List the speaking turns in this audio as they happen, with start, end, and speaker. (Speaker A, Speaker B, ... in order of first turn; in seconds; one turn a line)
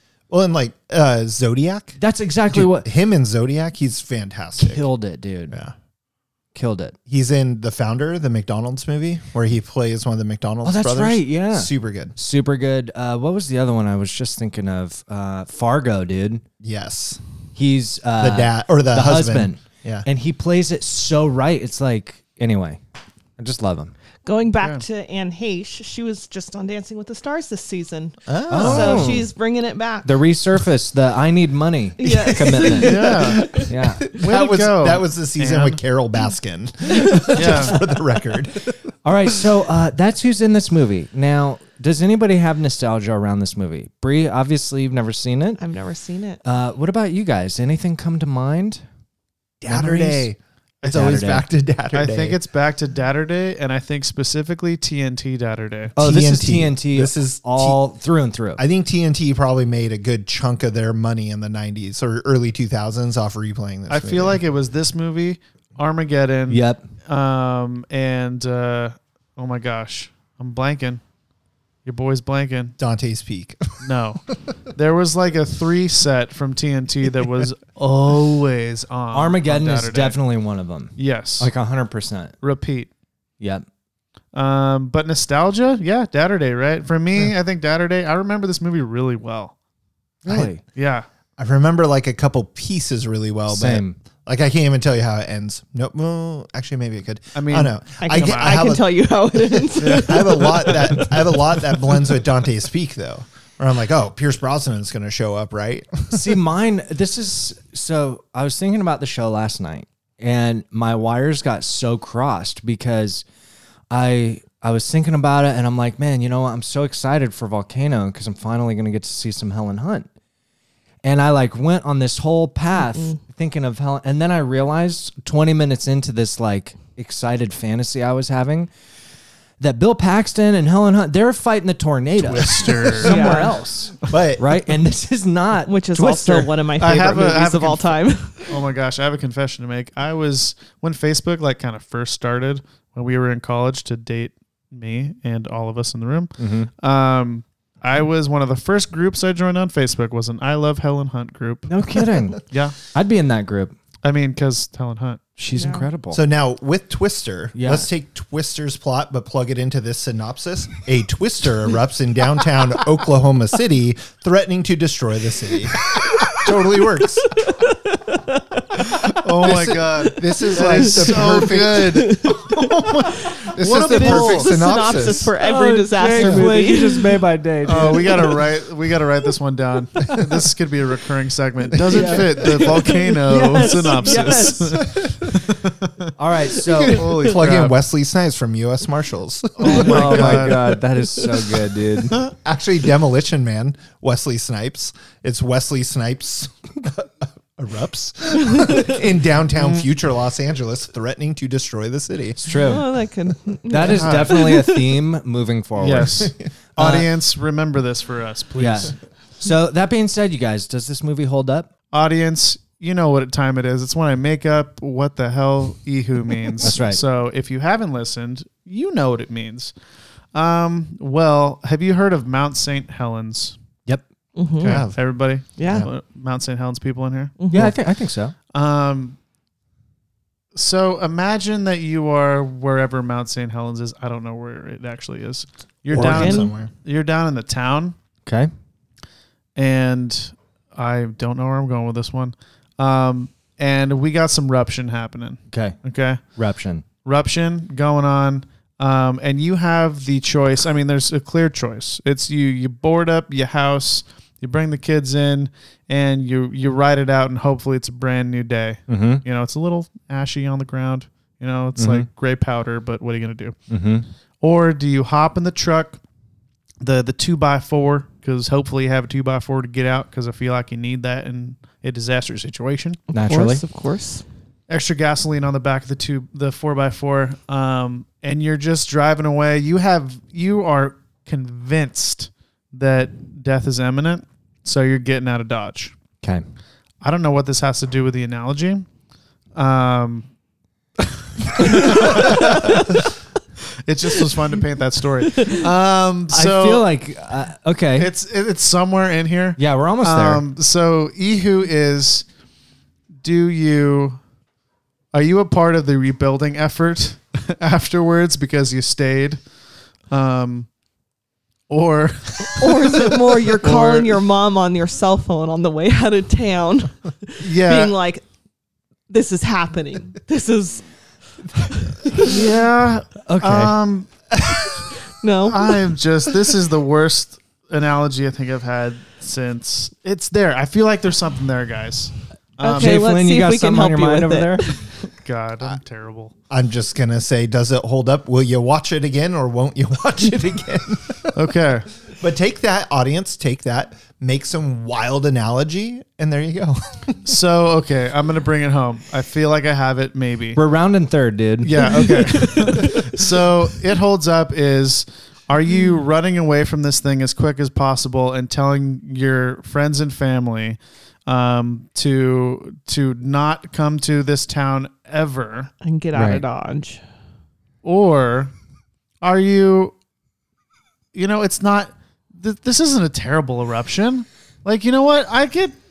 Speaker A: 0.3-4.9
Speaker B: 2.0-2.9
Speaker B: 4.6-5.6
Speaker B: 6.5-7.0
Speaker A: 7.1-12.1
Speaker B: 10.6-16.4
Speaker A: 16.6-17.2
Speaker B: 17.5-22.8
Speaker A: 18.2-20.1
Speaker B: 23.4-23.9
Speaker C: 24.2-30.1
Speaker A: 28.3-29.2
Speaker B: 28.5-29.3
Speaker B: 30.0-33.0
Speaker C: 32.0-33.6
Speaker A: 32.2-39.4
Speaker D: 32.8-33.4
Speaker B: 33.6-34.0
Speaker D: 34.2-35.8
Speaker D: 37.3-37.7
Speaker B: 39.0-45.6
Speaker C: 45.6-46.4
Speaker B: 46.4-48.8
Speaker A: 49.6-52.4
Speaker B: 49.6-50.3
Speaker B: 50.8-51.5
Speaker D: 51.9-55.9
Speaker B: 56.0-58.6
Speaker A: 56.0-57.8
Speaker A: 58.6-64.4
Speaker D: 63.9-71.0
Speaker B: 66.5-66.8
Speaker D: 71.8-72.8
Speaker A: 72.8-73.9
Speaker D: 73.8-80.2
Speaker B: 79.1-82.3
Speaker D: 81.0-81.5
Speaker D: 82.4-82.9
Speaker B: 83.4-83.7
Speaker D: 84.3-89.5
Speaker A: 90.2-90.5
Speaker B: 90.2-90.6
Speaker D: 90.6-91.0
Speaker A: 91.4-106.4
Speaker B: 93.5-94.0
Speaker D: 97.3-98.7
Speaker C: 98.0-101.0
Speaker B: 106.1-113.2
Speaker B: 113.9-120.1
Speaker B: 121.0-128.7
Speaker C: 122.7-123.2
Speaker B: 129.6-136.4
Speaker D: 132.2-133.5
Speaker A: 132.6-132.9
Speaker C: 133.0-133.5
Speaker A: 134.1-134.5
Speaker C: 135.7-138.5
Speaker D: 136.2-151.7
Speaker B: 146.4-146.7
Speaker B: 151.7-153.8
Speaker D: 152.5-152.8
Speaker D: 154.0-155.2
Speaker B: 155.4-156.2
Speaker C: 155.5-155.9
Speaker A: 156.1-167.6
Speaker B: 157.5-157.9
Speaker C: 168.1-168.4
Speaker D: 169.1-172.2
Speaker A: 169.2-175.3
Speaker C: 170.8-177.2
Speaker D: 173.6-174.2
Speaker B: 174.0-174.4
Speaker B: 175.4-178.4
Speaker A: 176.2-176.4
Speaker D: 177.6-186.1
Speaker A: 181.7-182.6
Speaker B: 181.9-182.5
Speaker C: 182.5-184.5
Speaker B: 183.3-184.8
Speaker A: 184.8-185.2
Speaker B: 186.2-187.0
Speaker D: 186.8-187.8
Speaker A: 186.9-190.6
Speaker D: 189.6-190.6
Speaker B: 189.6-192.2
Speaker A: 192.2-202.4
Speaker D: 199.6-199.9
Speaker B: 202.4-202.8
Speaker C: 202.5-204.9
Speaker B: 203.7-206.2
Speaker D: 203.9-204.4
Speaker D: 205.8-208.9
Speaker A: 206.0-206.5
Speaker B: 206.8-207.1
Speaker B: 208.6-211.7
Speaker D: 211.9-219.7
Speaker B: 216.6-217.0
Speaker D: 220.3-223.6
Speaker C: 224.4-224.8
Speaker D: 224.6-227.4
Speaker A: 224.6-225.0
Speaker C: 225.6-225.9
Speaker A: 225.6-225.9
Speaker C: 227.4-227.7
Speaker B: 227.5-228.3
Speaker D: 228.5-229.2
Speaker D: 230.5-237.9
Speaker A: 235.9-236.7
Speaker C: 235.9-236.5
Speaker B: 238.2-238.5
Speaker D: 239.6-246.2
Speaker B: 245.5-245.8
Speaker B: 246.3-246.8
Speaker D: 247.0-263.6
Speaker B: 258.9-259.2
Speaker B: 261.8-262.1
Speaker B: 263.7-264.1
Speaker D: 264.4-266.0
Speaker D: 266.8-273.0
Speaker B: 273.1-273.6
Speaker C: 273.1-274.2
Speaker D: 274.7-285.9
Speaker D: 287.0-288.9
Speaker D: 289.5-290.3
Speaker D: 291.0-292.9
Speaker D: 293.9-296.9
Speaker B: 296.3-298.1
Speaker D: 298.0-302.2
Speaker B: 299.6-300.4
Speaker D: 303.2-304.2
Speaker D: 305.1-309.4
Speaker D: 310.1-310.7
Speaker D: 311.7-314.2
Speaker C: 312.6-318.2
Speaker D: 317.4-317.9
Speaker C: 319.1-320.9
Speaker C: 321.5-322.3
Speaker D: 322.2-324.3
Speaker B: 323.2-323.8
Speaker C: 325.2-325.6
Speaker D: 325.4-333.0
Speaker C: 332.6-335.1
Speaker B: 332.7-334.7
Speaker D: 335.2-336.3
Speaker A: 336.5-341.4
Speaker D: 341.3-341.9
Speaker A: 342.2-347.2
Speaker D: 347.2-350.6
Speaker B: 350.5-351.7
Speaker D: 351.6-365.7
Speaker C: 351.9-353.0
Speaker C: 355.7-356.0
Speaker C: 365.8-367.0
Speaker B: 366.1-366.4
Speaker D: 367.8-368.5
Speaker D: 369.2-369.9
Speaker D: 371.1-375.7